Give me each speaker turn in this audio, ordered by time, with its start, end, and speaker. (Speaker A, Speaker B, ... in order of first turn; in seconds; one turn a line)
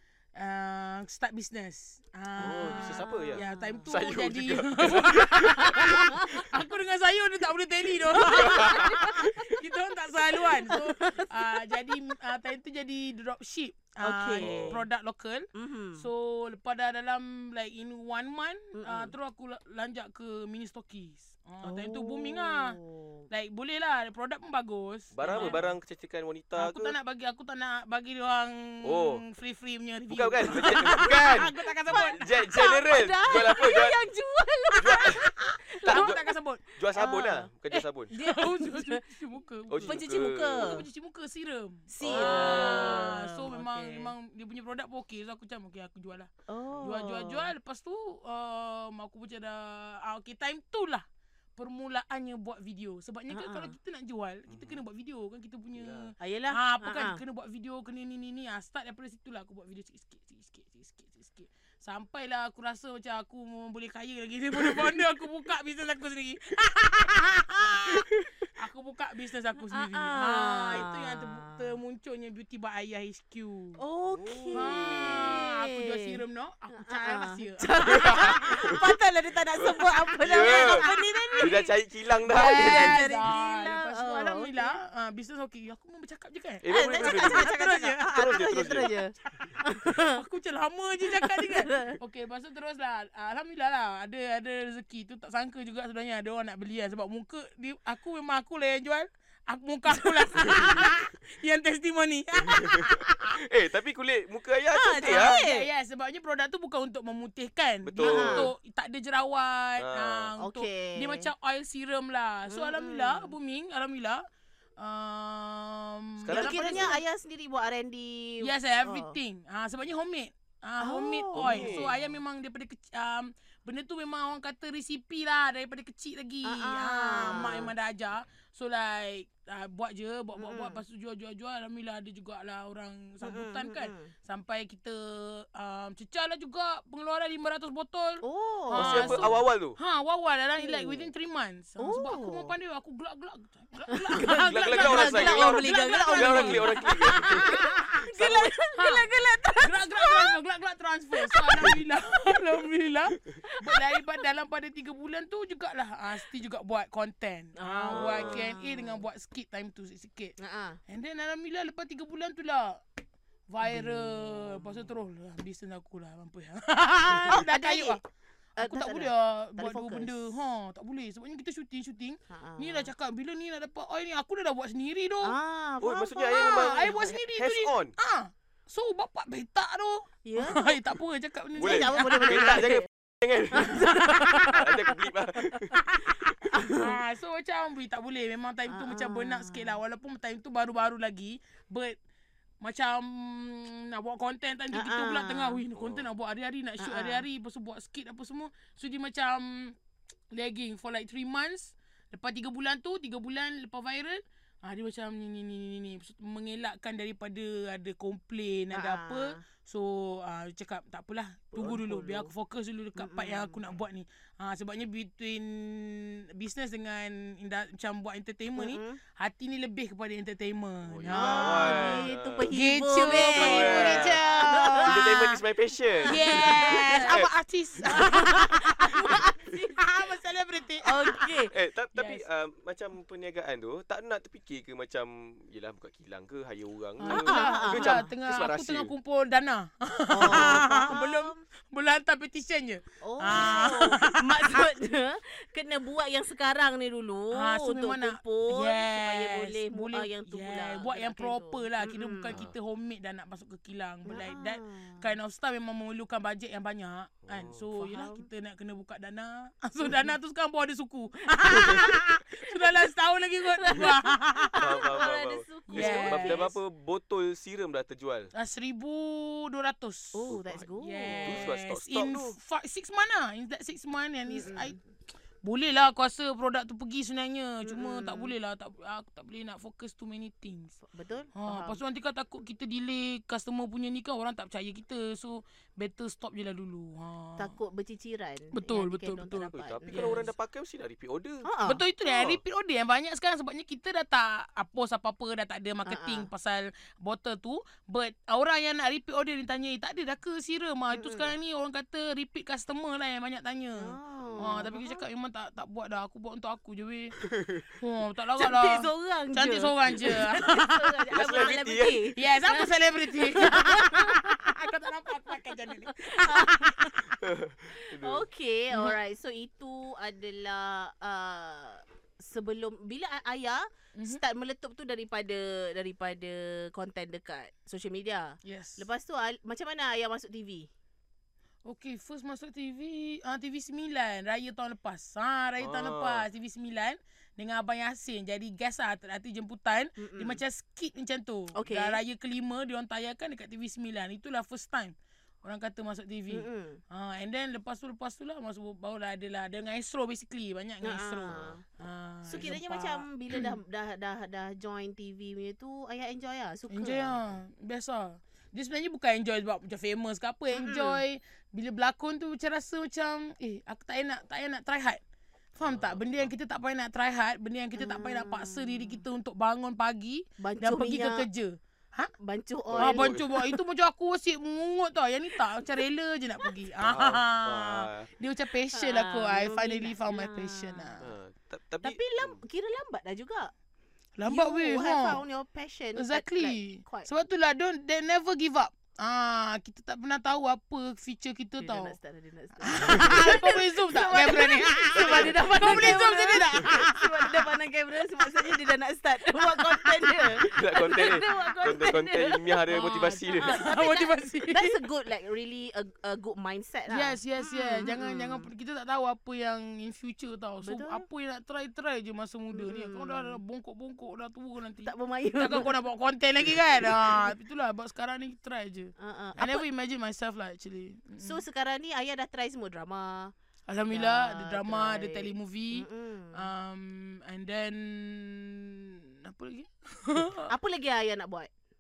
Speaker A: 0.3-22.8
Speaker B: 2.4-3.9
Speaker C: 2.4-6.1
Speaker B: 5.3-6.4
Speaker B: 8.1-9.3
Speaker C: 8.3-9.3
Speaker B: 10.3-12.0
Speaker B: 14.0-14.8
Speaker C: 14.4-14.8
Speaker B: 15.5-16.1
Speaker B: 18.7-19.1
Speaker B: 21.6-23.2
Speaker A: 23.3-25.7
Speaker C: 25.1-26.9
Speaker B: 25.3-25.6
Speaker A: 26.6-32.5
Speaker C: 28.8-29.2
Speaker C: 30.1-34.0
Speaker B: 30.5-31.1
Speaker B: 31.9-36.3
Speaker C: 34.8-35.3
Speaker A: 34.9-36.6
Speaker C: 35.8-36.2
Speaker C: 36.8-38.1
Speaker B: 36.9-37.5
Speaker A: 37.7-40.0
Speaker B: 38.1-39.0
Speaker C: 39.7-40.8
Speaker B: 39.8-40.8
Speaker A: 40.5-46.3
Speaker B: 41.9-44.1
Speaker C: 42.0-43.2
Speaker B: 46.5-47.5
Speaker A: 46.8-51.0
Speaker A: 51.5-73.8
Speaker B: 53.3-53.7
Speaker C: 54.5-54.8
Speaker C: 55.7-56.1
Speaker B: 56.2-57.2
Speaker B: 69.7-71.8
Speaker B: 73.8-76.2
Speaker C: 74.1-75.4
Speaker A: 74.5-78.8
Speaker B: 76.7-81.7
Speaker C: 77.9-78.8
Speaker C: 79.6-80.8
Speaker A: 80.4-81.6
Speaker C: 81.4-83.3
Speaker B: 82.3-84.7
Speaker A: 82.3-103.4
Speaker C: 86.6-87.5
Speaker B: 86.7-90.2
Speaker C: 88.1-88.9
Speaker B: 91.1-92.0
Speaker C: 102.5-105.4
Speaker B: 104.7-105.7
Speaker A: 105.0-114.2
Speaker C: 107.8-108.5
Speaker B: 108.0-108.5
Speaker C: 109.8-110.3
Speaker B: 110.4-111.3
Speaker B: 112.5-113.3
Speaker A: 114.8-117.0
Speaker C: 116.2-117.0
Speaker B: 116.3-119.1
Speaker A: 118.4-160.3
Speaker B: 120.8-122.1
Speaker C: 121.3-121.9
Speaker B: 126.4-127.7
Speaker B: 130.3-130.8
Speaker B: 133.2-134.1
Speaker B: 138.2-139.4
Speaker C: 138.7-139.8
Speaker B: 140.6-141.1
Speaker B: 141.8-142.5
Speaker B: 143.9-150.4
Speaker C: 144.2-147.6
Speaker C: 148.1-148.5
Speaker B: 151.1-151.8
Speaker B: 153.4-154.2
Speaker B: 157.6-159.0
Speaker C: 157.9-158.5
Speaker B: 160.4-160.8
Speaker A: 160.9-162.8
Speaker A: 163.5-168.0
Speaker B: 163.6-164.8
Speaker B: 167.3-168.0
Speaker B: 168.6-170.3
Speaker A: 168.6-175.3
Speaker B: 172.3-172.9
Speaker B: 175.2-177.1
Speaker C: 175.8-177.9
Speaker A: 176.3-182.6
Speaker B: 180.2-180.7
Speaker B: 181.6-182.8
Speaker C: 181.6-185.8
Speaker B: 183.5-185.7
Speaker A: 183.6-184.6
Speaker A: 185.9-186.2
Speaker B: 186.4-186.9
Speaker A: 186.7-192.0
Speaker B: 188.7-189.8
Speaker A: 192.6-199.8
Speaker B: 194.7-195.6
Speaker C: 195.7-196.1
Speaker B: 196.8-197.2
Speaker A: 200.3-225.4
Speaker B: 208.7-209.4
Speaker B: 211.5-212.3
Speaker B: 213.0-213.6
Speaker B: 218.6-219.0
Speaker C: 220.8-222.5
Speaker B: 221.1-224.9
Speaker C: 223.0-224.2
Speaker C: 224.8-227.3
Speaker B: 225.9-227.2
Speaker A: 226.0-231.3
Speaker B: 227.8-229.9
Speaker B: 230.8-231.5
Speaker C: 231.5-238.9
Speaker A: 231.9-232.2
Speaker A: 237.0-244.6
Speaker B: 237.0-238.1
Speaker B: 240.1-241.4
Speaker C: 240.2-240.7
Speaker B: 243.0-252.4
Speaker A: 247.3-265.1
Speaker B: 254.1-255.1
Speaker C: 257.3-257.6
Speaker B: 257.7-258.3
Speaker B: 259.8-260.1
Speaker B: 261.3-262.7
Speaker B: 263.5-266.6
Speaker C: 264.6-268.3
Speaker A: 265.7-266.4
Speaker A: 268.3-274.8
Speaker B: 270.1-271.5
Speaker C: 270.3-272.3
Speaker B: 274.3-274.8
Speaker A: 275.4-280.8
Speaker B: 277.6-278.3
Speaker B: 280.8-281.8
Speaker A: 281.4-287.5
Speaker B: 287.4-290.2
Speaker A: 288.5-290.3
Speaker C: 289.5-291.5
Speaker B: 291.4-291.8
Speaker A: 291.6-307.2
Speaker C: 292.1-292.4
Speaker B: 295.8-296.3
Speaker B: 300.9-301.3
Speaker B: 303.8-305.0
Speaker C: 307.2-307.6
Speaker A: 307.8-311.4
Speaker B: 308.4-314.4
Speaker C: 311.1-312.1
Speaker A: 312.1-317.0
Speaker B: 315.2-317.1
Speaker C: 317.2-318.2
Speaker B: 317.7-330.7
Speaker A: 318.7-319.0
Speaker A: 323.9-324.2
Speaker A: 328.4-328.8
Speaker A: 331.6-353.6
Speaker C: 335.6-336.2
Speaker B: 340.0-340.4
Speaker B: 341.5-342.0
Speaker B: 346.3-346.8
Speaker B: 350.8-351.6
Speaker C: 351.3-351.6
Speaker B: 352.2-357.2
Speaker A: 356.7-365.0
Speaker B: 360.5-361.0
Speaker A: 365.6-372.1
Speaker C: 365.6-366.3
Speaker B: 367.8-369.0
Speaker B: 370.4-371.2
Speaker B: 372.2-373.5
Speaker C: 372.7-373.3
Speaker A: 372.8-381.1
Speaker C: 376.8-378.1
Speaker B: 378.7-381.0
Speaker C: 381.0-382.4
Speaker B: 381.8-383.5
Speaker A: 384.2-385.2
Speaker B: 384.2-387.1
Speaker A: 385.9-391.9
Speaker B: 391.6-408.5
Speaker A: 392.6-397.5
Speaker C: 392.9-393.3
Speaker C: 394.9-396.0
Speaker C: 400.4-403.7
Speaker A: 402.7-404.8
Speaker A: 406.9-421.4
Speaker B: 410.6-411.0
Speaker B: 412.5-413.4
Speaker B: 414.8-415.7
Speaker B: 416.9-417.3
Speaker B: 419.0-419.6
Speaker B: 421.2-423.3
Speaker A: 423.7-430.5
Speaker B: 423.9-426.5
Speaker B: 430.5-431.5